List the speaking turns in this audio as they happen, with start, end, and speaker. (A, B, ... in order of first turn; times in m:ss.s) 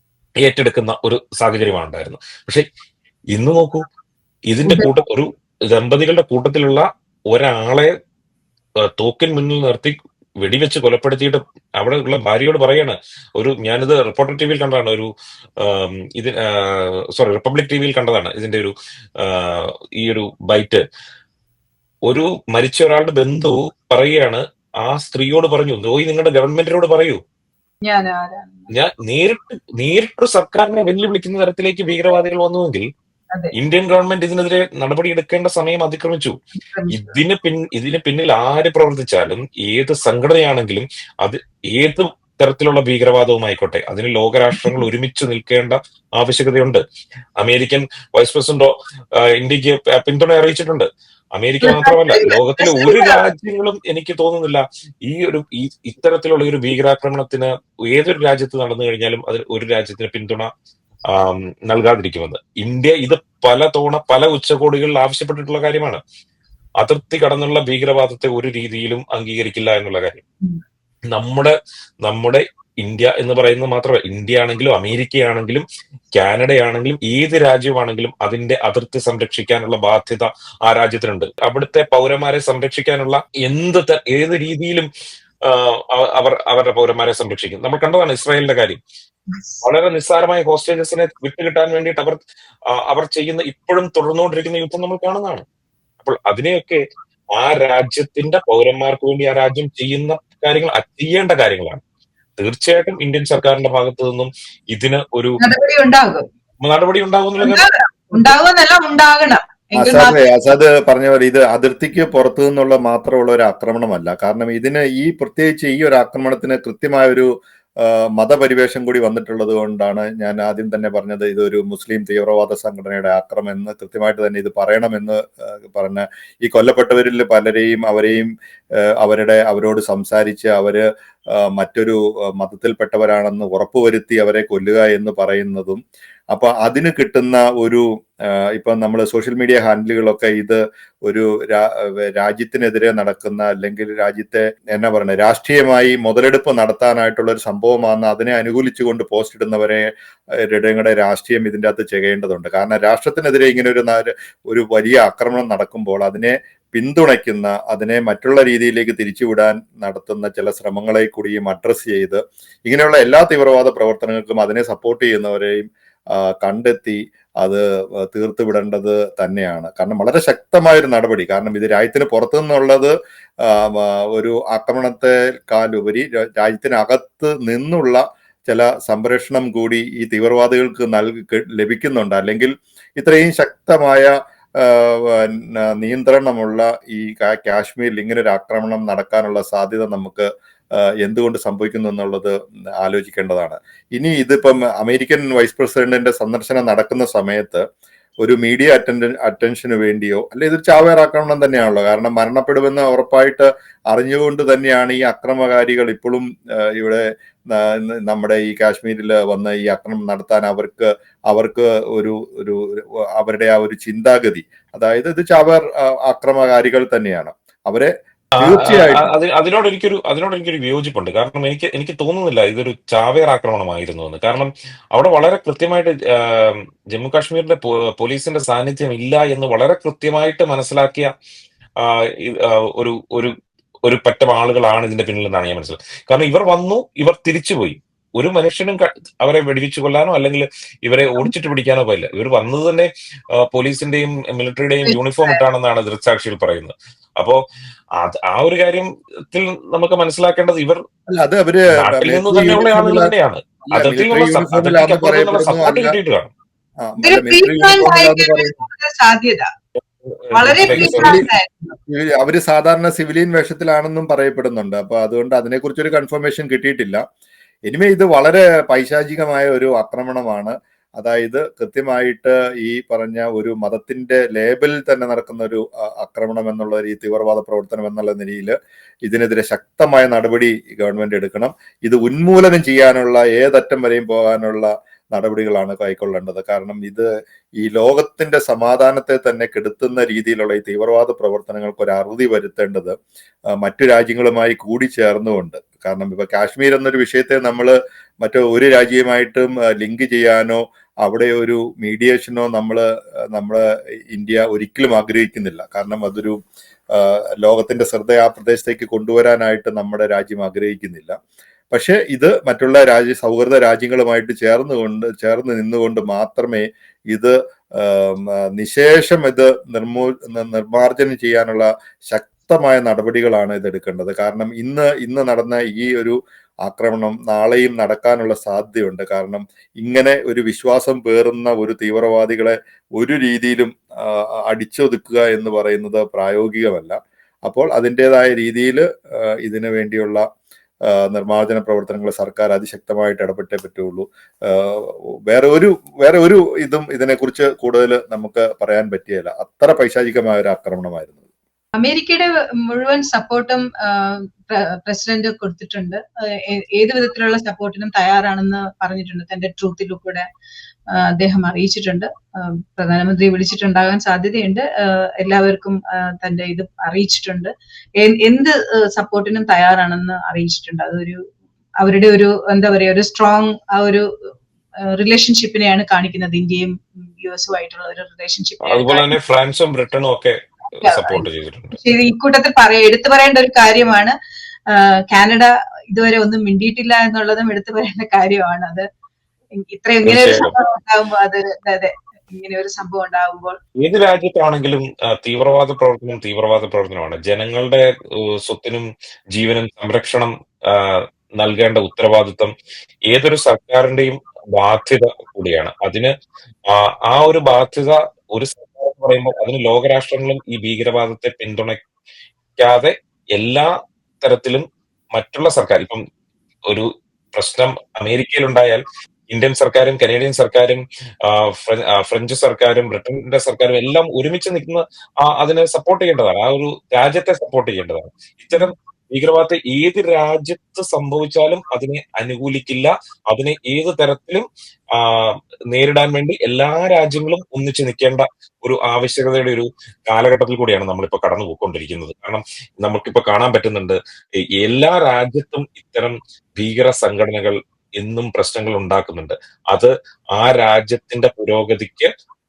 0:00.4-0:02.6 A
0:03.3-0:03.8 A
0:04.5-0:07.9 A
0:09.0-0:15.1 A
0:15.6-0:20.8 A
0:22.1-0:27.2 A
0:27.8-0:28.7 B
0:28.7-0:32.8 A
0:33.6-0:36.4 A
0:36.6-0:37.2 B
0:36.9-0:46.8 A
0:47.4-1:00.5 A
0:51.6-0:53.2 B
1:01.1-1:06.0 A
1:06.8-1:10.2 A
1:11.1-1:24.9 A
1:25.4-1:28.8 A
1:29.3-1:29.6 B
1:29.6-1:32.2 A
1:32.8-1:35.4 A
1:36.0-1:36.8 A
1:37.4-1:41.8 A
1:42.4-1:45.4 A
1:45.4-1:46.2 B
1:46.6-1:47.6 A
1:47.4-1:50.2 B
1:49.8-1:57.3 C
1:57.8-2:08.3 C
2:09.0-2:10.8 C
2:11.3-2:15.8 C
2:16.3-2:17.8 C
2:18.5-2:29.8 C
2:30.4-2:52.9 C
2:53.4-3:10.3 C
3:11.0-3:17.6 C
3:18.2-3:39.1 C
3:38.4-3:51.1 A
3:51.8-3:53.3 A
3:53.8-4:02.9 A
4:03.4-4:07.4 A
4:04.8-4:05.4 B
4:08.0-4:10.8 A
4:11.1-4:13.1 C
4:11.8-4:16.3 A
4:13.7-4:15.9 C
4:16.8-4:18.6 C
4:17.0-4:19.5 B
4:20.1-4:21.2 A
4:20.3-4:21.7 B
4:20.7-4:21.3 C
4:21.9-4:27.0 C
4:27.7-4:47.0 C
4:47.6-4:52.9 C
4:53.6-5:06.4 C
5:06.9-5:11.2 C
5:11.7-5:40.2 C
5:40.9-5:51.2 C
5:51.8-6:00.2 B
6:00.9-6:11.2 B
6:11.8-6:14.0 B
6:14.9-6:19.1 B
6:18.6-6:21.8 A
6:20.8-6:24.1 B
6:24.7-6:28.8 B
6:29.6-6:33.6 B
6:30.0-6:30.6 A
6:33.8-6:37.9 A
6:38.4-6:42.5 A
6:43.1-6:46.1 A
6:46.7-6:51.8 A
6:52.6-6:53.7 A
6:54.2-6:56.0 A
6:56.7-7:14.4 A
7:15.0-7:24.0 A
7:24.6-7:32.1 A